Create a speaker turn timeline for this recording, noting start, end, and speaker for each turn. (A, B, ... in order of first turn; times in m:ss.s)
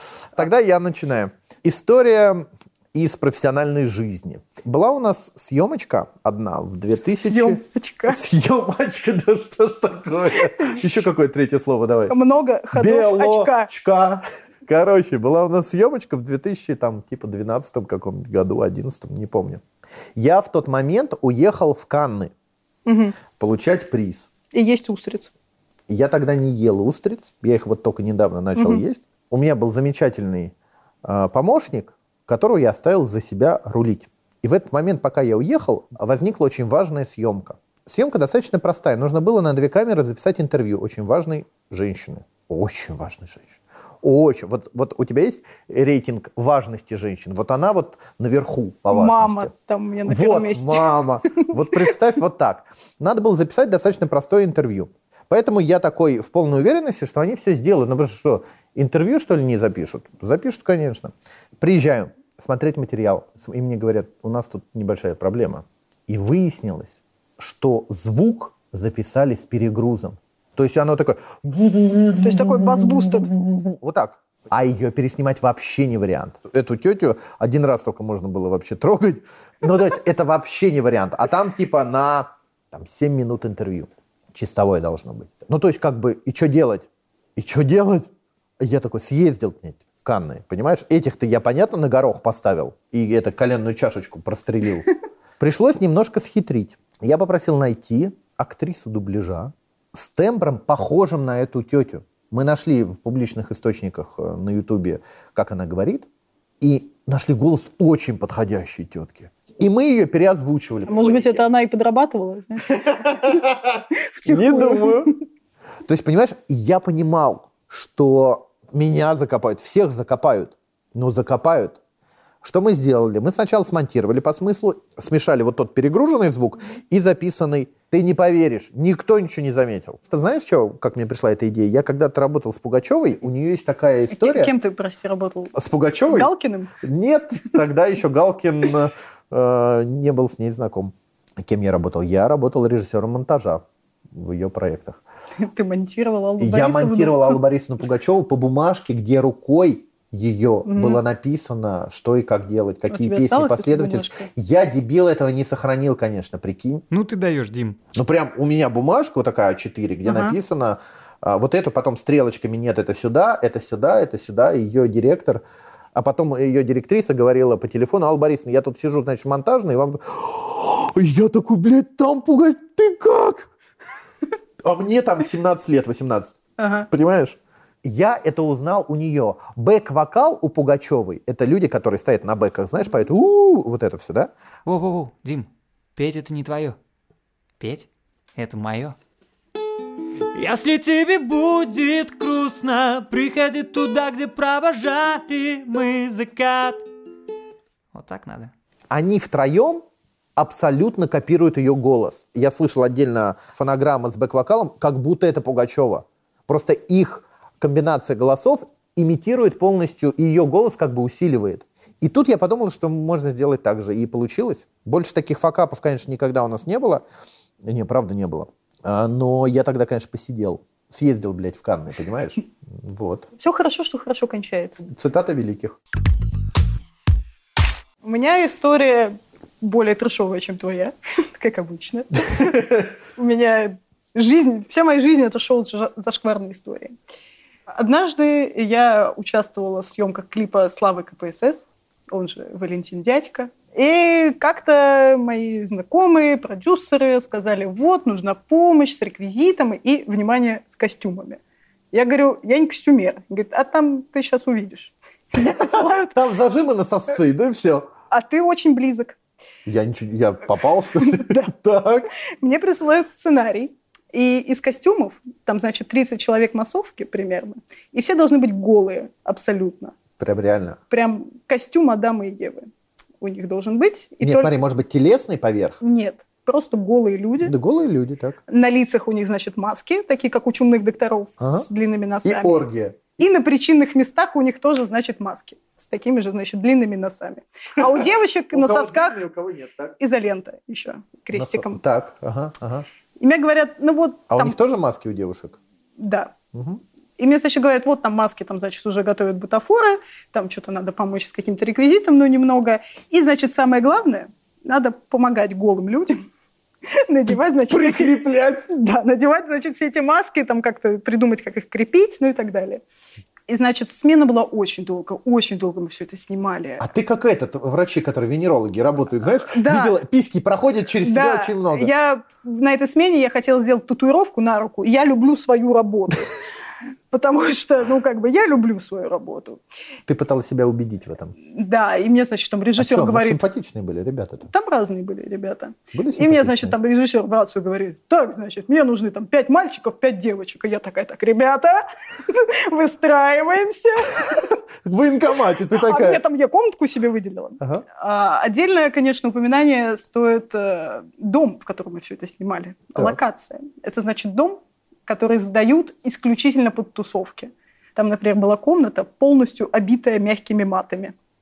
0:00.3-0:12.1 A
0:07.2-0:08.2 B
0:12.1-0:13.7 B
0:12.7-0:19.6 A
0:20.2-0:22.3 A
0:22.9-0:23.2 B
0:23.3-0:24.3 A
0:24.5-0:25.3 B
0:25.9-0:30.5 A
0:28.6-0:28.8 B
0:31.0-0:49.5 A
0:48.9-0:51.9 B
0:50.0-1:46.1 A
1:12.2-1:13.3 B
1:46.6-1:51.4 A
1:50.9-1:53.4 B
1:52.7-1:55.1 A
1:53.9-1:55.1 B
1:55.8-2:01.8 A
2:02.4-2:14.5 A
2:14.1-2:15.6 B
2:15.6-2:16.3 A
2:16.1-2:16.7 B
2:16.8-2:25.0 A
2:25.4-2:27.4 B
2:26.4-2:36.8 A
2:30.7-2:31.0 B
2:32.9-2:34.3 B
2:36.9-2:37.8 C
2:37.9-2:45.4 A
2:40.1-2:40.4 B
2:46.0-2:53.5 A
2:54.6-2:56.4 A
2:56.6-2:56.9 B
2:56.9-3:04.3 A
3:04.6-3:06.8 C
3:07.6-3:09.0 C
3:10.3-3:16.8 C
3:17.9-3:18.5 C
3:18.9-3:19.8 A
3:20.4-3:37.0 A
3:37.6-3:43.3 A
3:43.4-3:44.8 B
3:44.8-3:45.8 A
3:48.0-3:56.9 B
3:52.4-3:52.8 A
3:57.7-4:11.4 B
4:11.9-4:16.2 B
4:15.4-4:17.9 A
4:18.1-4:19.2 B
4:19.6-4:22.1 A
4:21.1-4:21.5 B
4:22.4-4:30.0 B
4:30.2-4:30.8 A
4:30.9-4:32.7 B
4:33.2-4:34.5 B
4:34.2-4:35.8 A
4:35.8-4:37.5 B
4:37.4-4:38.4 A
4:38.5-4:42.6 B
4:41.4-4:41.7 A
4:42.2-4:43.2 A
4:43.2-4:49.2 B
4:48.5-4:50.0 A
4:50.0-4:51.8 B
4:51.3-4:52.9 A
4:53.2-4:54.6 B
4:54.3-4:55.6 A
4:56.0-4:56.4 B
4:56.5-4:56.8 A
4:57.2-5:06.2 B
5:06.9-5:12.8 B
5:07.7-5:08.6 A
5:13.5-5:16.9 B
5:16.8-5:21.9 A
5:19.4-5:20.0 B
5:21.0-5:26.3 B
5:27.1-5:29.6 B
5:30.1-5:31.3 A
5:31.5-5:33.4 B
5:32.8-5:34.5 A
5:34.5-5:44.5 B
5:35.9-5:36.8 A
5:44.8-5:46.2 A
5:45.7-6:01.1 B